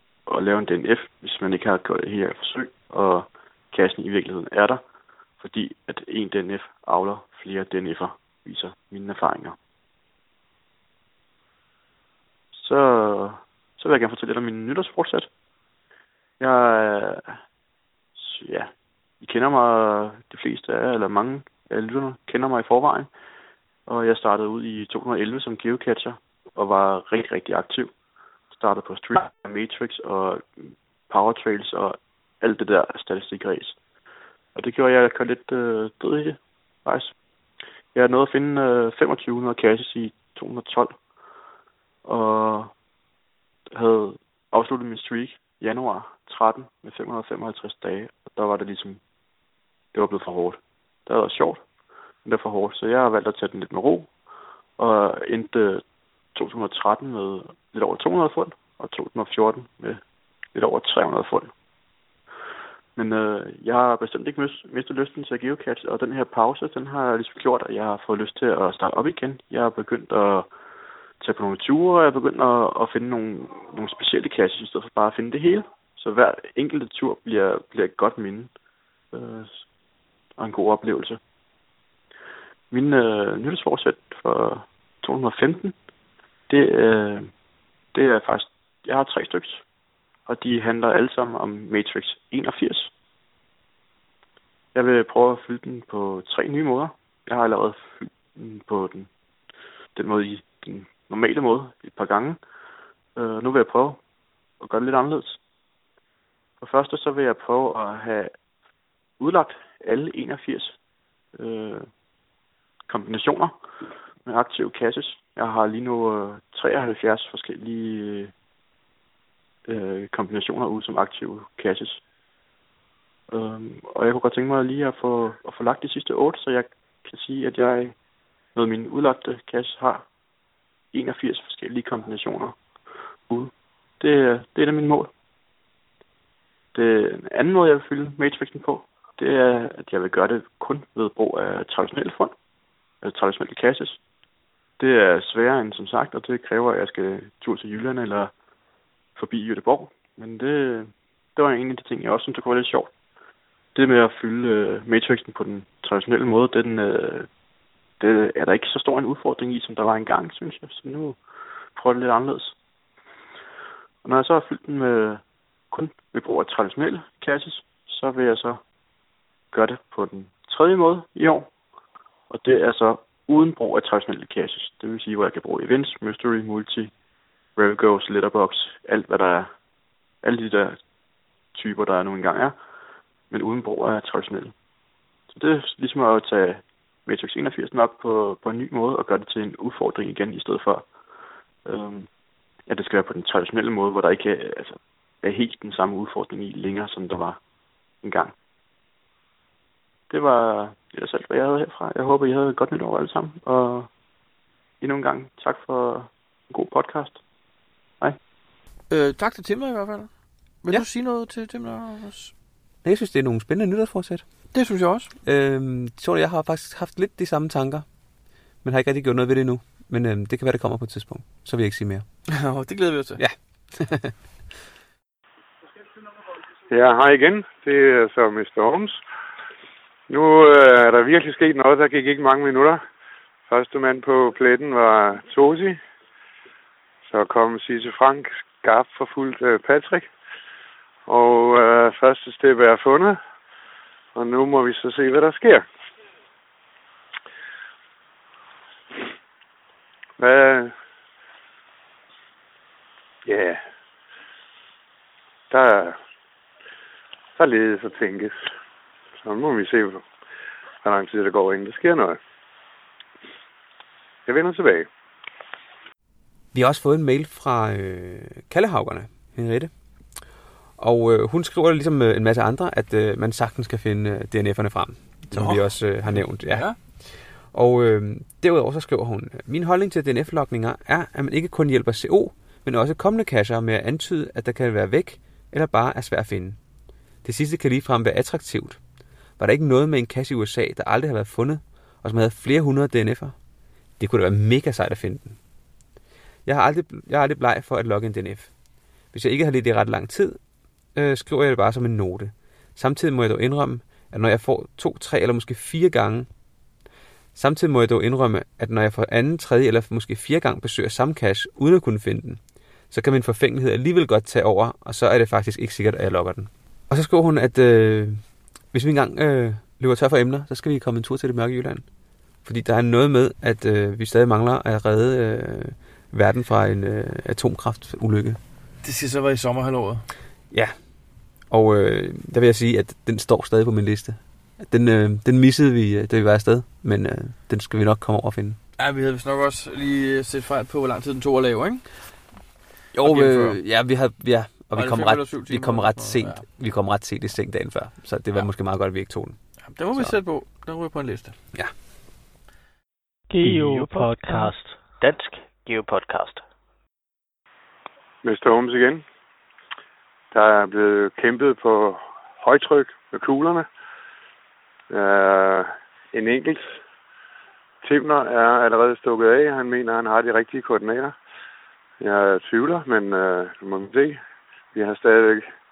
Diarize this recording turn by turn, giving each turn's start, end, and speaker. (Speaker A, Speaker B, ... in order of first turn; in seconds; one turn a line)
Speaker A: 0.3-4.8
Speaker A: 5.4-9.6
Speaker A: 12.5-15.3
Speaker A: 16.4-17.4
Speaker A: 18.1-18.7
Speaker A: 19.2-23.1
Speaker A: 23.9-27.9
Speaker A: 28.5-33.8
Speaker A: 34.5-37.1
Speaker A: 37.9-41.0
Speaker A: 42.0-42.7
Speaker A: 43.7-49.0
Speaker A: 49.9-51.6
Speaker A: 52.2-54.1
Speaker A: 54.8-55.8
Speaker A: 56.4-60.0
Speaker A: 60.5-61.5
Speaker A: 63.0-70.5
Speaker A: 71.2-78.5
Speaker A: 79.1-79.6
Speaker A: 80.4-81.2
Speaker A: 82.7-85.8
Speaker A: 86.5-87.3
Speaker A: 87.9-89.6
Speaker A: 90.3-92.9
Speaker A: 94.7-99.1
Speaker A: 100.0-102.4
Speaker A: 103.2-104.0
Speaker A: 104.6-105.4
Speaker A: 106.6-108.3
Speaker A: 109.2-110.8
Speaker A: 111.4-111.9
Speaker A: 112.9-113.6
Speaker A: 114.2-118.3
Speaker A: 119.7-122.0
Speaker A: 123.3-128.0
Speaker A: 128.6-130.1
Speaker A: 130.9-132.6
Speaker A: 133.3-135.1
Speaker A: 136.7-142.3
Speaker A: 143.0-144.0
Speaker A: 144.8-148.3
Speaker A: 149.2-152.9
Speaker A: 153.8-157.3
Speaker A: 158.0-161.2
Speaker A: 161.8-162.6
Speaker A: 164.0-168.6
Speaker A: 169.5-171.5
Speaker A: 172.3-176.9
Speaker A: 177.6-179.5
Speaker A: 180.2-180.8
Speaker A: 181.5-182.6
Speaker A: 183.3-184.5
Speaker A: 185.3-190.9
Speaker A: 191.7-192.1
Speaker A: 192.7-197.4
Speaker A: 198.0-198.3
Speaker A: 200.1-203.9
Speaker A: 204.8-207.2
Speaker B: 208.9-210.1
Speaker B: 210.6-212.3
Speaker C: 212.8-214.2
Speaker B: 214.5-215.1
Speaker C: 215.2-217.9
Speaker C: 218.6-222.1
Speaker B: 222.3-223.2
Speaker C: 223.2-224.1
Speaker D: 226.7-229.0
Speaker D: 230.1-232.8
Speaker D: 233.5-235.8
Speaker D: 237.1-240.1
Speaker D: 241.1-243.2
Speaker D: 244.2-245.7
Speaker D: 250.2-250.7
Speaker D: 253.3-253.6
Speaker D: 255.5-256.0
Speaker D: 257.4-258.4
Speaker D: 259.2-260.0
Speaker D: 260.8-262.2
Speaker D: 264.3-264.9
Speaker C: 266.5-269.7
Speaker C: 270.8-276.7
Speaker B: 275.3-276.8
Speaker C: 277.5-286.6
Speaker C: 287.2-288.8
Speaker C: 289.4-293.4
Speaker C: 294.0-295.4
Speaker C: 296.5-298.5
Speaker C: 299.1-300.4
Speaker C: 300.9-306.3
Speaker C: 307.4-312.4
Speaker C: 312.9-318.2
Speaker C: 318.7-321.9
Speaker C: 322.4-328.4
Speaker B: 328.8-330.1
Speaker C: 331.5-338.6
Speaker B: 338.8-341.9
Speaker C: 342.9-349.4
Speaker B: 343.0-343.6
Speaker B: 344.7-346.5
Speaker B: 349.6-351.4
Speaker E: 353.3-356.4
Speaker D: 358.2-359.0
Speaker D: 360.3-363.7
Speaker D: 364.9-366.7
Speaker D: 367.8-371.2
Speaker D: 372.0-374.2
Speaker D: 374.7-375.5